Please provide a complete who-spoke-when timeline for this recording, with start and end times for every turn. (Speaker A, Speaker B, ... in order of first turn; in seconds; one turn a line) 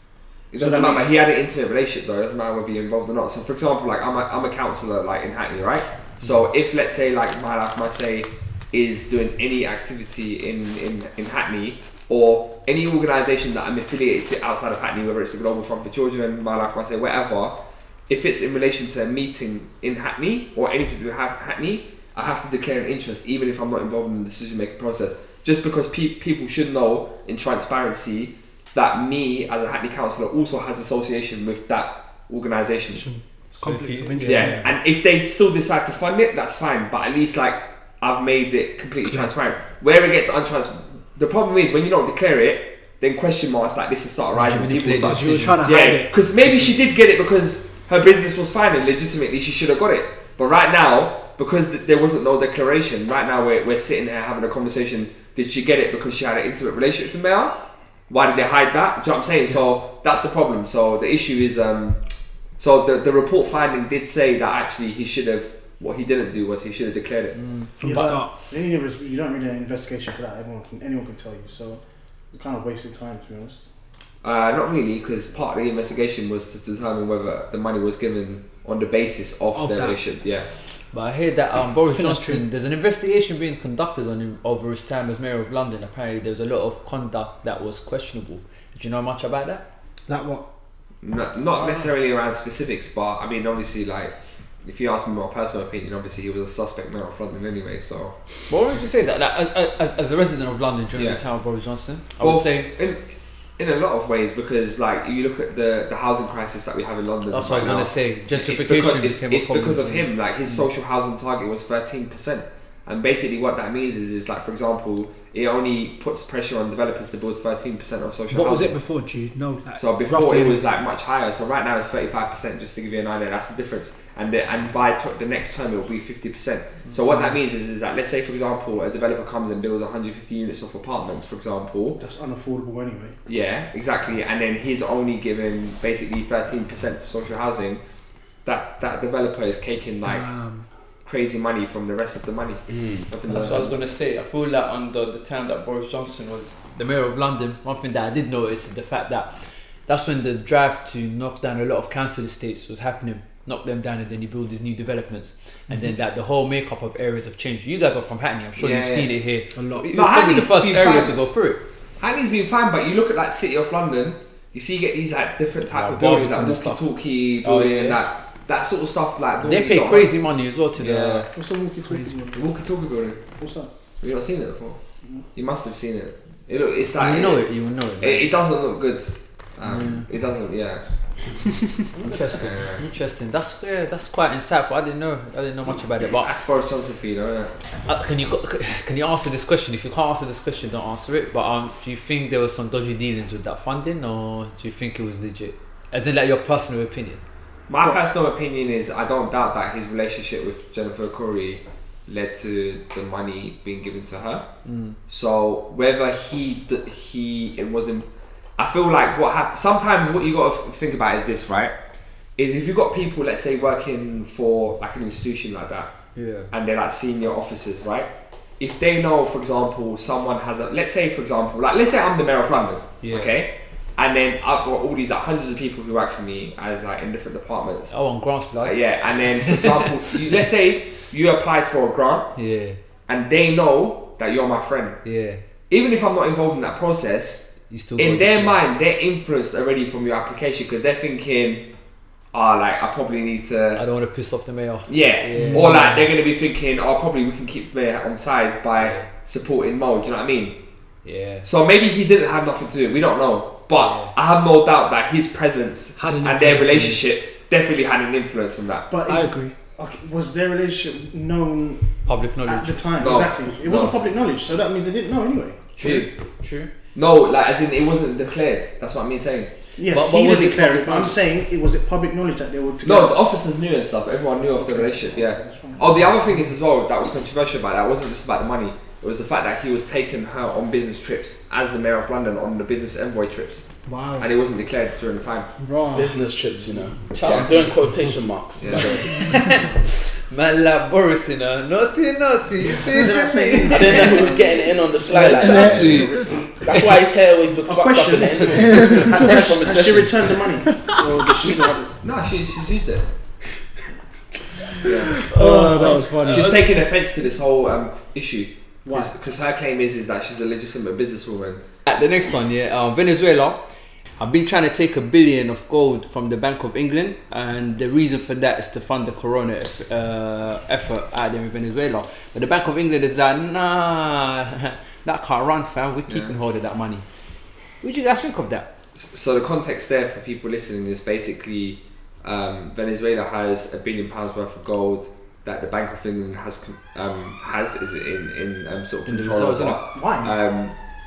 Speaker A: 0.5-17.6
Speaker B: 0.6-1.1
Speaker A: 18.1-33.0
Speaker C: 32.9-34.7
Speaker D: 33.6-34.6
Speaker A: 34.2-57.5
Speaker C: 39.0-39.3
Speaker D: 44.3-45.6
Speaker C: 44.9-46.7
Speaker A: 58.1-62.0
Speaker A: 62.6-67.4
Speaker D: 67.3-68.2
Speaker C: 67.8-68.3
Speaker B: 67.8-71.8
Speaker B: 72.3-73.6
Speaker A: 74.2-80.5
Speaker C: 79.5-80.0
Speaker D: 80.9-89.6
Speaker C: 81.9-82.4
Speaker C: 90.1-90.4
Speaker A: 91.0-98.2
Speaker D: 91.5-91.9
Speaker D: 98.5-102.7
Speaker A: 101.0-101.2
Speaker A: 102.2-118.8
Speaker D: 107.3-110.7
Speaker C: 118.3-120.7
Speaker A: 119.7-132.0
Speaker B: 132.0-133.2
Speaker A: 133.3-137.8
Speaker A: 138.4-140.3
Speaker C: 140.1-140.6
Speaker A: 141.0-143.7
Speaker E: 142.7-143.1
Speaker D: 143.3-149.3
Speaker D: 149.9-161.6
Speaker A: 158.6-159.1
Speaker C: 159.5-159.9
Speaker A: 159.9-161.1
Speaker A: 162.0-170.2
Speaker D: 165.7-166.8
Speaker D: 167.4-168.0
Speaker D: 169.4-171.3
Speaker A: 170.8-171.3
Speaker B: 171.3-172.4
Speaker C: 171.8-172.2
Speaker A: 172.3-173.2
Speaker B: 173.4-173.7
Speaker A: 174.0-174.8
Speaker A: 175.3-177.4
Speaker D: 177.0-178.3
Speaker A: 178.0-180.8
Speaker D: 179.6-180.1
Speaker D: 182.0-186.3
Speaker A: 182.3-182.8
Speaker A: 186.0-187.5
Speaker D: 187.8-197.2
Speaker A: 197.7-204.4
Speaker D: 204.6-205.0
Speaker A: 205.1-208.1
Speaker A: 208.6-211.7
Speaker A: 212.4-215.9
Speaker D: 216.1-216.5
Speaker A: 216.5-227.9
Speaker D: 223.0-223.3
Speaker D: 227.9-230.4
Speaker A: 228.6-232.3
Speaker D: 232.3-232.8
Speaker A: 233.1-235.0
Speaker D: 235.0-235.4
Speaker A: 235.7-237.4
Speaker D: 237.7-238.6
Speaker A: 238.0-241.6
Speaker A: 242.3-243.8
Speaker D: 243.8-246.1
Speaker A: 244.9-250.6
Speaker C: 245.3-245.7
Speaker D: 248.8-249.1
Speaker D: 251.0-251.5
Speaker A: 251.4-258.9
Speaker D: 253.7-254.1
Speaker C: 256.0-257.2
Speaker B: 258.9-261.9
Speaker C: 259.1-259.6
Speaker D: 262.0-262.9
Speaker B: 262.4-265.7
Speaker A: 263.0-263.9
Speaker D: 265.8-266.7
Speaker A: 265.8-266.1
Speaker A: 266.9-269.5
Speaker B: 269.8-273.2
Speaker D: 269.9-271.2
Speaker A: 272.8-285.5
Speaker B: 274.5-275.9
Speaker C: 283.9-284.3
Speaker C: 285.6-286.1
Speaker E: 285.9-289.2
Speaker D: 287.1-287.7
Speaker A: 287.2-287.5
Speaker A: 288.6-289.0
Speaker D: 288.7-294.3
Speaker B: 292.8-296.6
Speaker E: 293.7-300.4
Speaker D: 295.1-296.3
Speaker C: 295.2-296.2
Speaker B: 297.6-301.9
Speaker C: 298.7-299.0
Speaker C: 300.7-301.1
Speaker A: 302.0-303.1
Speaker A: 304.8-305.2
Speaker C: 305.1-306.6
Speaker B: 305.4-305.9
Speaker E: 305.6-306.6
Speaker A: 306.2-311.6
Speaker B: 308.9-309.1
Speaker D: 311.9-313.6
Speaker D: 314.2-327.0
Speaker A: 326.1-326.3
Speaker D: 327.8-328.7
Speaker A: 329.0-340.7
Speaker D: 339.1-339.8
Speaker B: 339.9-340.3